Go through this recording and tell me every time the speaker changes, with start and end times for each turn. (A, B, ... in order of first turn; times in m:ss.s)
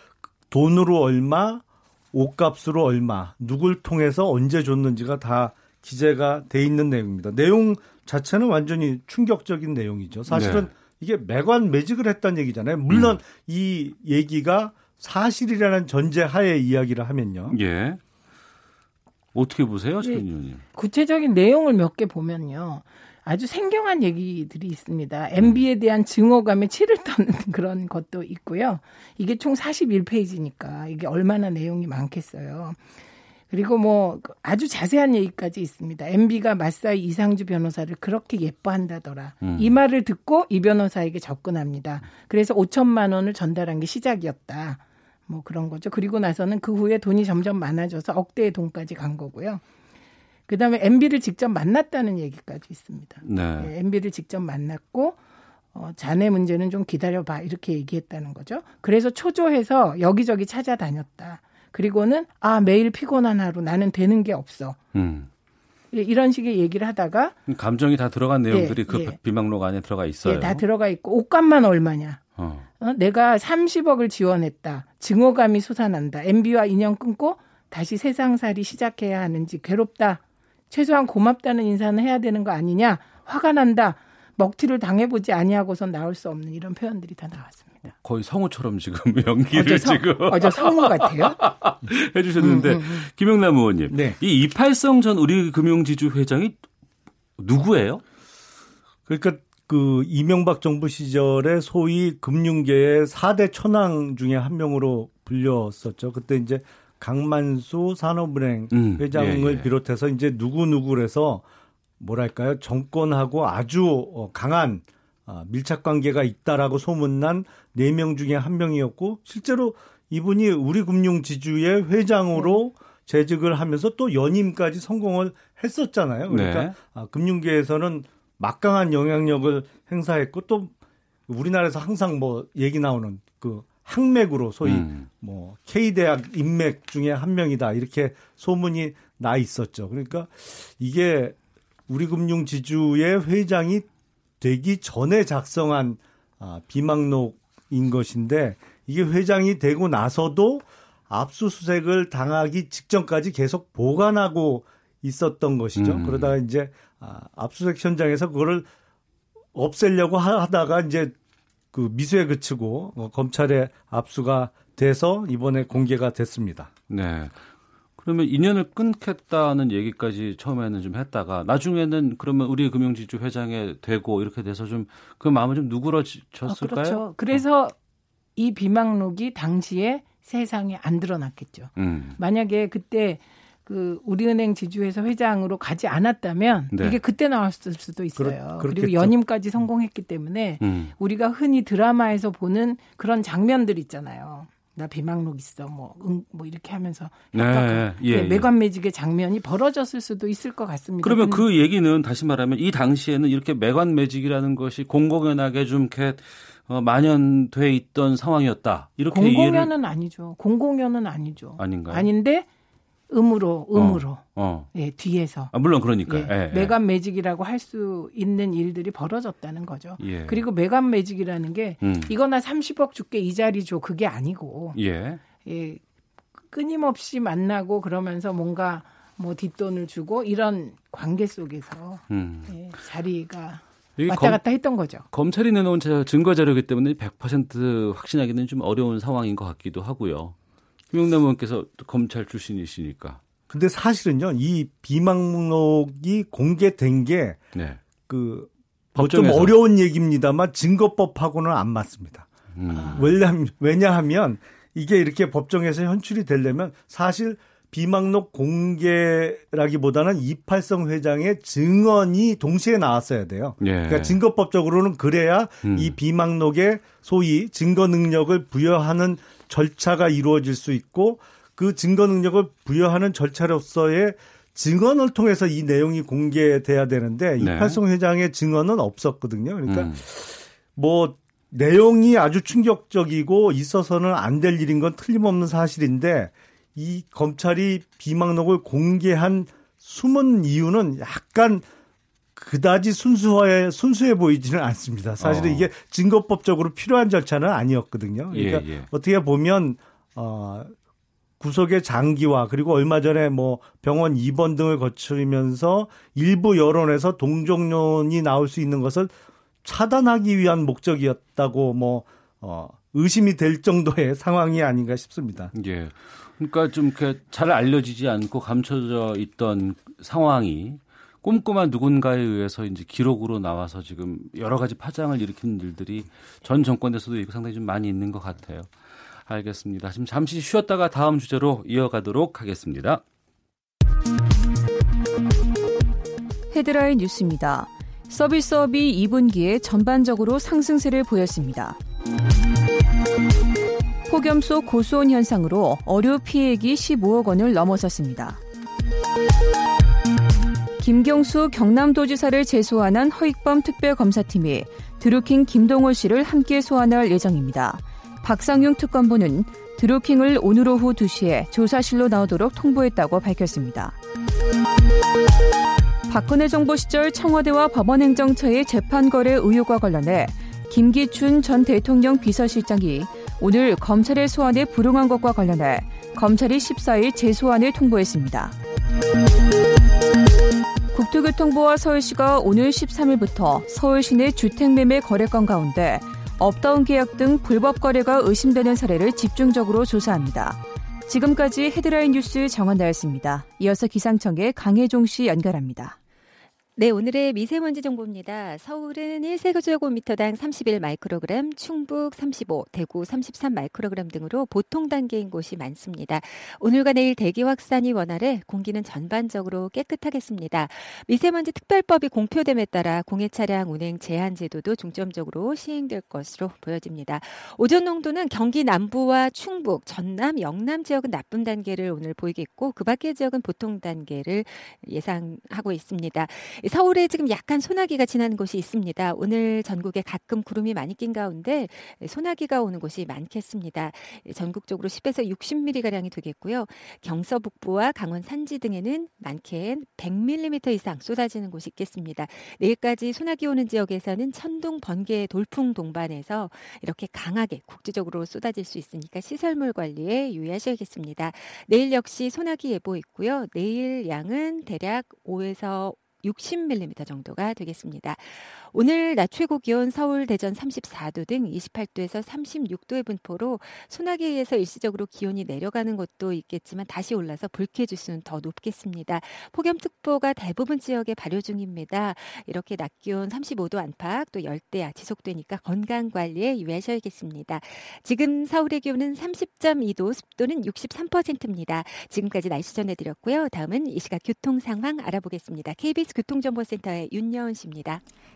0:00.5-0:17.6 A
0:10.3-0:10.7 B
0:12.9-0:13.2 B
0:17.5-0:18.0 B
0:19.3-0:20.6 B
0:20.0-0:32.8 C
0:33.5-0:49.6 C
0:39.4-0:39.8 B
0:50.5-0:55.2 C
0:53.2-0:53.7 B
0:55.7-1:04.8 C
1:04.9-1:05.3 B
1:05.9-1:07.3 C
1:07.5-1:10.6 B
1:08.5-1:09.2 C
1:10.2-1:12.2 C
1:12.4-1:12.7 B
1:12.8-1:27.9 C
1:28.0-1:36.6 B
1:29.5-1:31.4 C
1:32.4-1:33.1 C
1:33.9-1:34.2 A
1:37.4-1:38.0 B
1:39.1-1:51.4 A
1:48.7-1:49.7 B
1:52.0-2:10.7 A
2:02.3-2:02.6 C
2:06.3-2:06.7 B
2:11.3-2:21.4 A
2:14.6-2:15.1 B
2:21.9-2:23.8 A
2:24.4-2:38.7 A
2:35.8-2:36.4 B
2:39.5-2:41.1 A
2:41.7-2:46.7 A
2:46.9-2:47.4 B
2:48.0-2:57.4 B
2:56.5-2:57.7 C
2:58.4-3:21.4 C
3:01.8-3:02.2 B
3:06.7-3:07.0 B
3:08.2-3:09.1 A
3:10.6-3:10.9 B
3:17.3-3:18.5 B
3:21.0-3:29.7 B
3:29.1-3:32.5 C
3:31.6-3:32.1 B
3:33.1-3:35.5 C
3:33.7-3:34.7 B
3:35.5-3:36.8 B
3:36.0-3:44.8 C
3:40.0-3:40.4 B
3:41.8-3:42.1 B
3:44.7-3:45.2 B
3:45.4-3:45.8 C
3:46.5-3:55.0 C
3:52.1-3:52.7 B
3:54.0-3:54.4 B
3:55.1-4:00.3 B
4:00.9-4:03.2 B
4:03.5-4:07.4 A
4:07.5-4:07.8 B
4:08.0-4:12.2 A
4:08.9-4:09.6 B
4:12.5-4:13.2 B
4:12.8-4:51.6 A
4:23.6-4:24.2 B
4:25.6-4:26.0 B
4:37.4-4:37.8 B
4:39.7-4:40.0 B
4:52.4-5:00.7 A
4:55.2-4:55.7 B
4:58.3-4:58.9 B
5:01.4-5:09.1 A
5:09.6-5:15.5 A
5:15.5-5:33.0 B
5:36.5-5:41.8 D
5:44.0-5:48.4 D
5:50.8-6:04.0 D
6:06.1-6:18.5 D
6:20.9-6:36.0 D
6:36.8-8:08.0 E